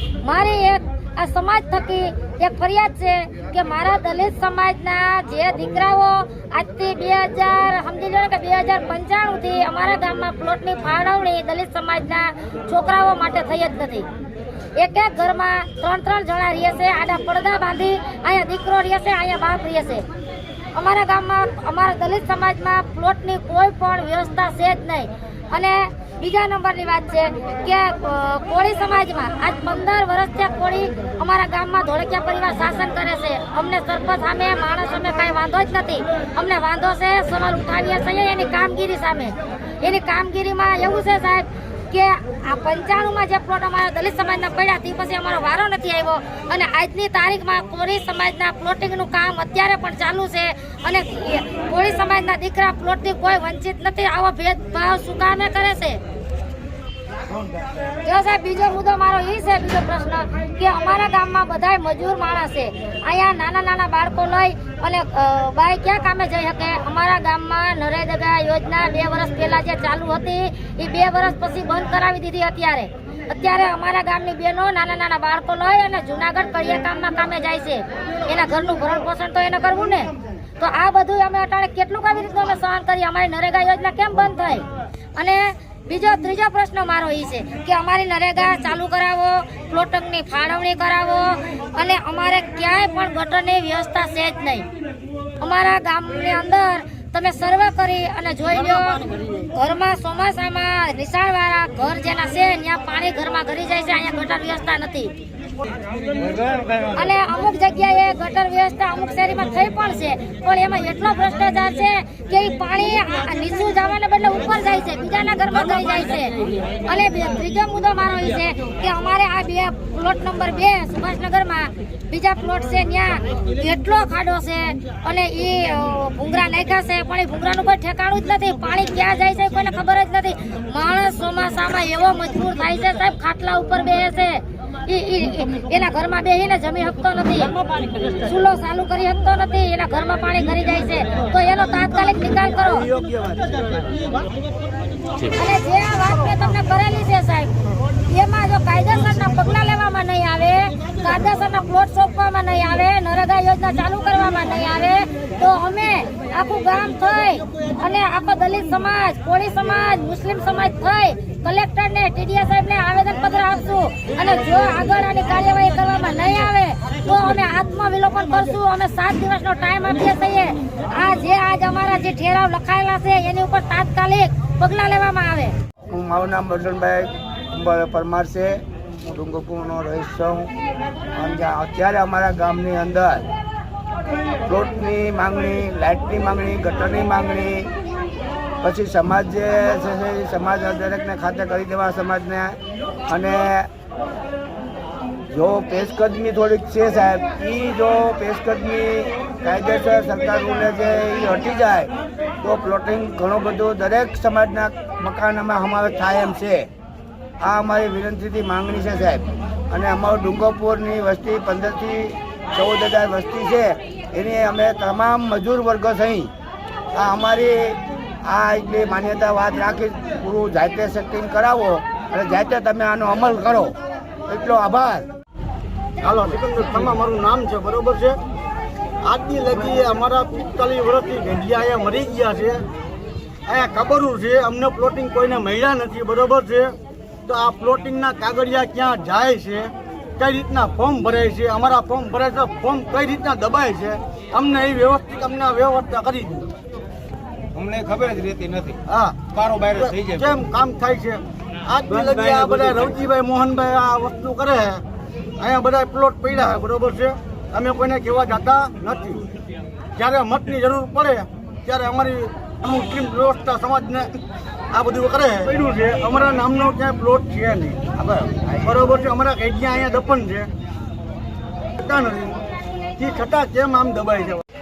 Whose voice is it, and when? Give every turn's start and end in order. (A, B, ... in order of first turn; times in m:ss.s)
0:00.2-0:14.1 A
0:14.8-0:20.0 A
0:20.8-0:56.0 A
0:58.0-1:24.7 A
1:25.2-1:34.7 A
1:35.4-1:45.1 A
1:46.2-1:46.8 B
1:46.8-2:17.5 A
2:18.1-2:22.9 A
2:23.4-2:23.9 C
2:25.3-2:55.5 A
2:55.9-3:00.5 D
3:01.2-3:03.2 D
3:04.5-3:07.7 D
3:08.6-3:12.6 D
3:13.1-3:13.7 D
3:15.3-3:21.9 D
3:22.4-3:26.7 D
3:27.4-3:36.3 D
3:37.0-3:43.8 D
3:44.3-3:45.1 D
3:46.0-3:48.2 C
3:49.0-3:52.6 C
3:53.5-3:56.8 C
3:57.3-4:06.5 C
4:07.6-4:10.3 B
4:08.9-4:14.8 C
4:11.9-4:13.0 B
4:15.4-4:19.2 C
4:20.0-4:24.1 C
4:24.7-4:30.5 C
4:31.8-4:32.4 C
4:33.0-4:34.4 C